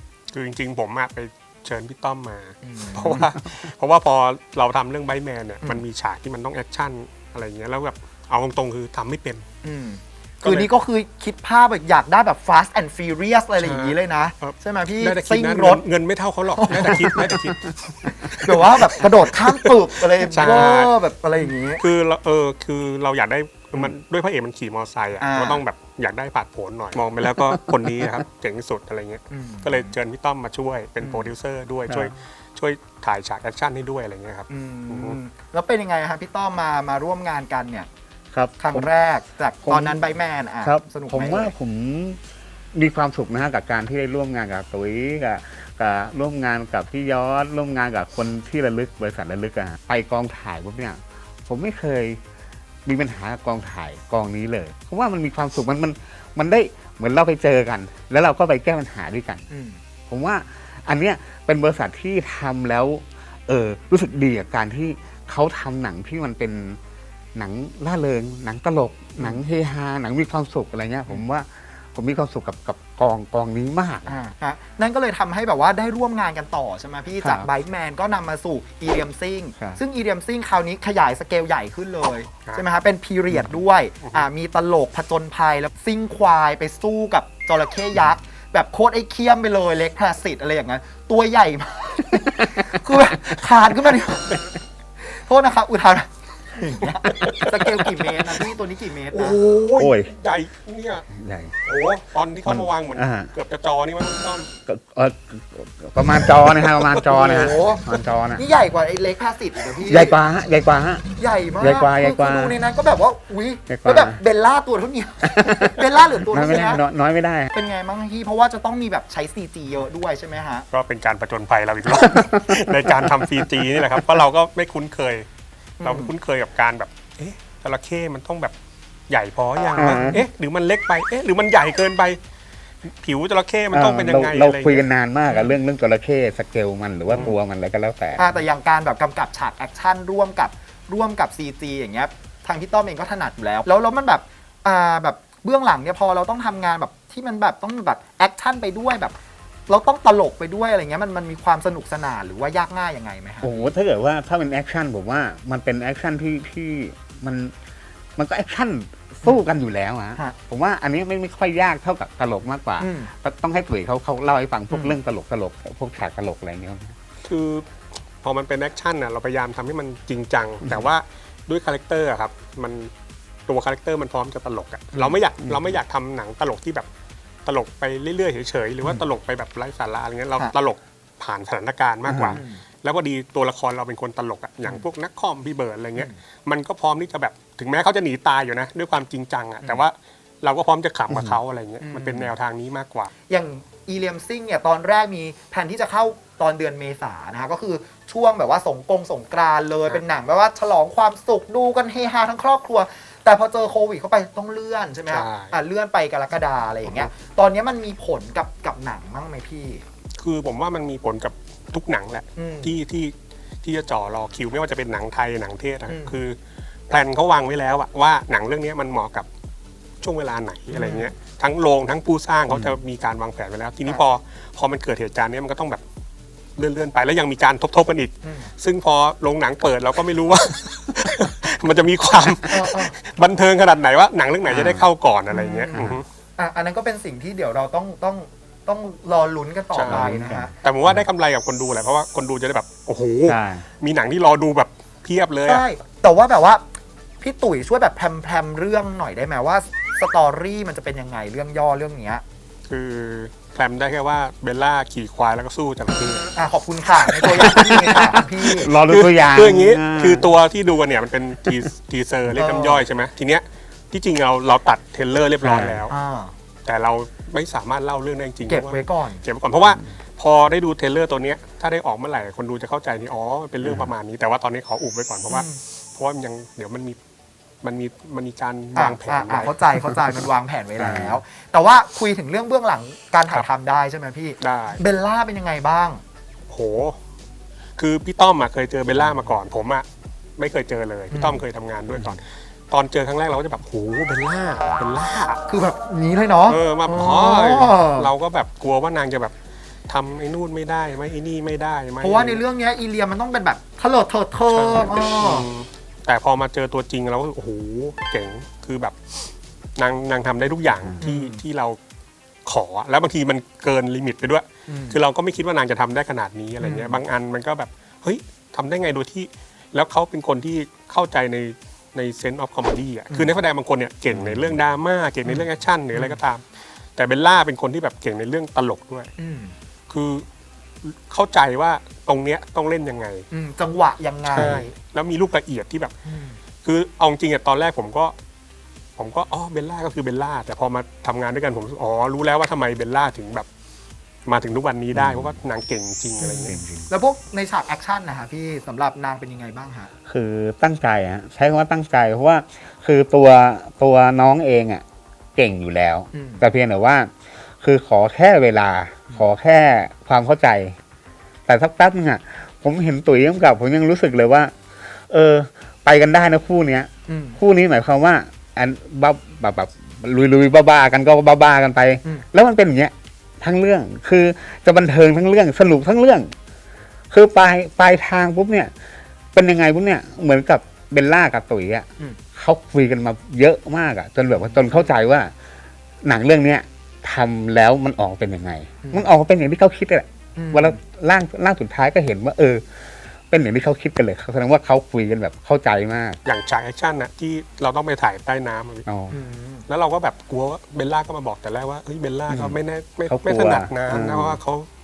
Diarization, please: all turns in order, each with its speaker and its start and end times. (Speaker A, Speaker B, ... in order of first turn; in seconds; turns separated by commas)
Speaker A: 0.3-9.5, Speaker B: 2.6-3.2, Speaker B: 9.6-15.8, Speaker A: 10.4-10.7, Speaker A: 13.6-20.9, Speaker B: 16.6-17.4, Speaker B: 18.1-21.8, Speaker A: 21.8-35.2, Speaker B: 25.2-25.6, Speaker C: 27.5-28.1, Speaker B: 29.3-29.9, Speaker B: 31.0-31.3, Speaker B: 34.5-37.9, Speaker C: 38.3-38.9, Speaker B: 38.6-41.5, Speaker C: 39.6-40.1, Speaker C: 40.6-42.2, Speaker C: 42.7-52.2, Speaker C: 52.9-59.5, Speaker B: 59.5-59.8, Speaker C: 60.1-66.8, Speaker C: 67.3-74.2, Speaker B: 74.1-94.5, Speaker C: 77.2-77.5, Speaker C: 83.3-83.6, Speaker B: 95.0-99.4, Speaker A: 97.0-98.2, Speaker A: 99.1-101.1, Speaker C: 99.8-100.1, Speaker C: 101.1-101.5, Speaker A: 101.6-104.5, Speaker C: 102.5-103.3, Speaker C: 104.7-108.4, Speaker A: 106.7-107.0, Speaker B: 107.0-110.2, Speaker C: 109.8-111.1, Speaker B: 111.2-116.8, Speaker C: 111.6-112.5, Speaker C: 113.7-114.2, Speaker C: 115.2-117.5, Speaker B: 117.5-120.7, Speaker A: 120.7-125.3, Speaker C: 121.9-124.0, Speaker B: 125.8-126.1, Speaker A: 125.8-128.6, Speaker A: 129.1-132.2, Speaker C: 129.8-130.2, Speaker A: 133.0-134.8, Speaker C: 133.7-138.3, Speaker B: 135.3-135.5, Speaker B: 138.2-149.2, Speaker B: 149.7-153.5, Speaker C: 153.4-157.5, Speaker C: 158.2-167.0, Speaker B: 162.8-163.1, Speaker B: 164.7-165.0, Speaker A: 167.2-167.7, Speaker A: 168.2-172.9, Speaker A: 173.5-176.9, Speaker A: 177.4-193.1, Speaker C: 182.1-182.4, Speaker B: 182.3-182.6, Speaker C: 191.1-191.4, Speaker B: 191.8-192.3, Speaker B: 193.3-209.8, Speaker A: 205.1-205.6, Speaker A: 210.2-216.4, Speaker B: 212.4-212.8, Speaker B: 215.9-216.1, Speaker A: 216.9-219.3, Speaker A: 220.0-225.8, Speaker B: 220.7-221.1, Speaker A: 226.6-236.1, Speaker B: 228.2-228.5, Speaker B: 232.5-232.9, Speaker C: 234.5-234.9, Speaker B: 235.3-240.5, Speaker A: 239.7-245.6, Speaker C: 239.9-241.0, Speaker C: 243.3-243.7, Speaker B: 245.5-246.6, Speaker B: 247.2-252.2, Speaker A: 252.7-256.4, Speaker B: 256.4-258.7, Speaker A: 257.0-265.9, Speaker C: 257.3-260.3, Speaker B: 262.3-262.9, Speaker C: 265.4-265.8, Speaker B: 265.9-266.3, Speaker A: 266.6-277.0, Speaker B: 268.5-269.2, Speaker B: 275.3-275.6, Speaker A: 277.6-279.5, Speaker B: 278.8-286.0, Speaker C: 280.8-281.2, Speaker A: 284.4-284.8, Speaker A: 286.5-287.0, Speaker A: 287.8-289.9, Speaker A: 290.4-295.4, Speaker B: 291.1-291.4, Speaker B: 295.5-298.1, Speaker A: 296.5-299.3, Speaker A: 299.9-302.4, Speaker B: 302.0-305.5, Speaker A: 304.5-311.8, Speaker B: 311.0-311.4, Speaker A: 312.5-329.1, Speaker B: 314.7-315.0, Speaker B: 316.6-317.0, Speaker C: 324.1-324.5, Speaker B: 325.2-326.2, Speaker B: 329.2-329.6, Speaker A: 329.9-330.3, Speaker A: 330.8-333.3, Speaker B: 333.3-334.7, Speaker A: 334.3-335.9, Speaker B: 336.1-336.4, Speaker A: 336.6-338.1, Speaker A: 339.0-343.5, Speaker A: 344.3-346.6, Speaker C: 344.9-345.4, Speaker B: 346.2-349.9, Speaker C: 346.5-346.9, Speaker C: 350.1-354.8, Speaker C: 355.4-360.8, Speaker B: 356.1-356.4, Speaker C: 361.5-376.3, Speaker B: 367.1-367.4, Speaker C: 377.1-378.7, Speaker C: 379.3-385.3, Speaker B: 384.4-384.9, Speaker C: 386.0-396.2, Speaker B: 388.8-389.1, Speaker B: 390.4-390.8, Speaker A: 396.2-398.9, Speaker C: 398.9-399.2, Speaker B: 399.1-399.7, Speaker A: 399.7-404.7, Speaker C: 402.3-404.4